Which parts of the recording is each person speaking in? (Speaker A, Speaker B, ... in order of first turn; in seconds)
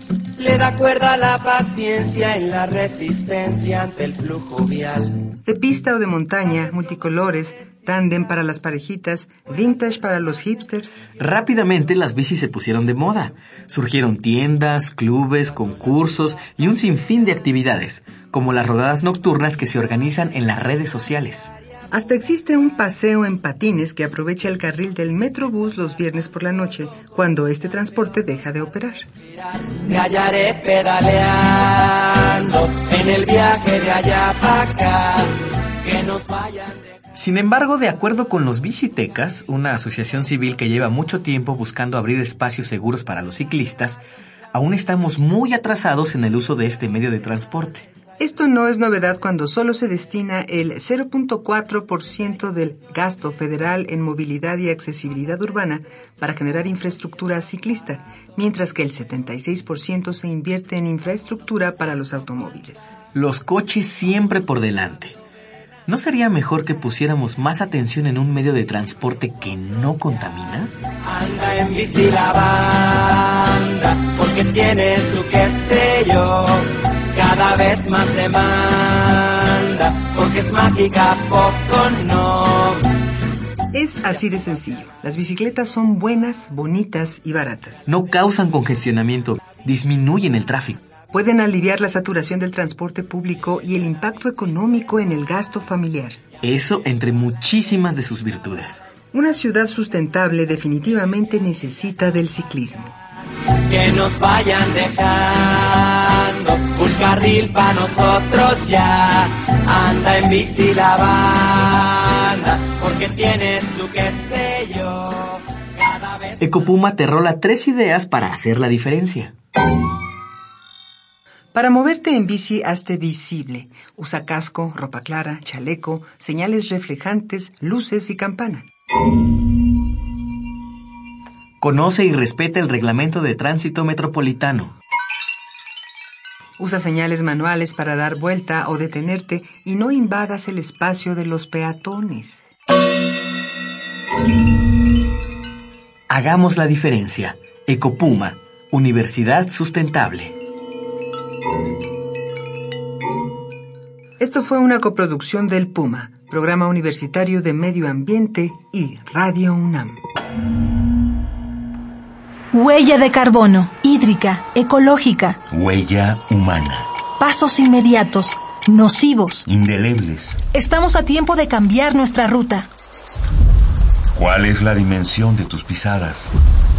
Speaker A: 0.4-5.3, 29.5-36.9, 71.0-82.8, 103.7-116.5
Speaker B: 5.5-11.1, 21.9-29.1, 48.2-63.0, 83.7-87.9, 91.1-96.2, 99.1-103.0, 121.5-128.7, 136.6-142.5, 154.2-160.0
Speaker C: 11.2-21.5, 37.1-44.0, 44.5-47.9, 63.1-65.2, 65.9-70.7, 87.9-90.8, 96.4-98.9, 116.4-119.3, 131.6-134.8, 146.1-150.4
Speaker D: 162.5-165.4, 167.2-169.5, 170.5-172.7
Speaker E: 165.5-166.9, 169.5-170.4, 174.1-176.3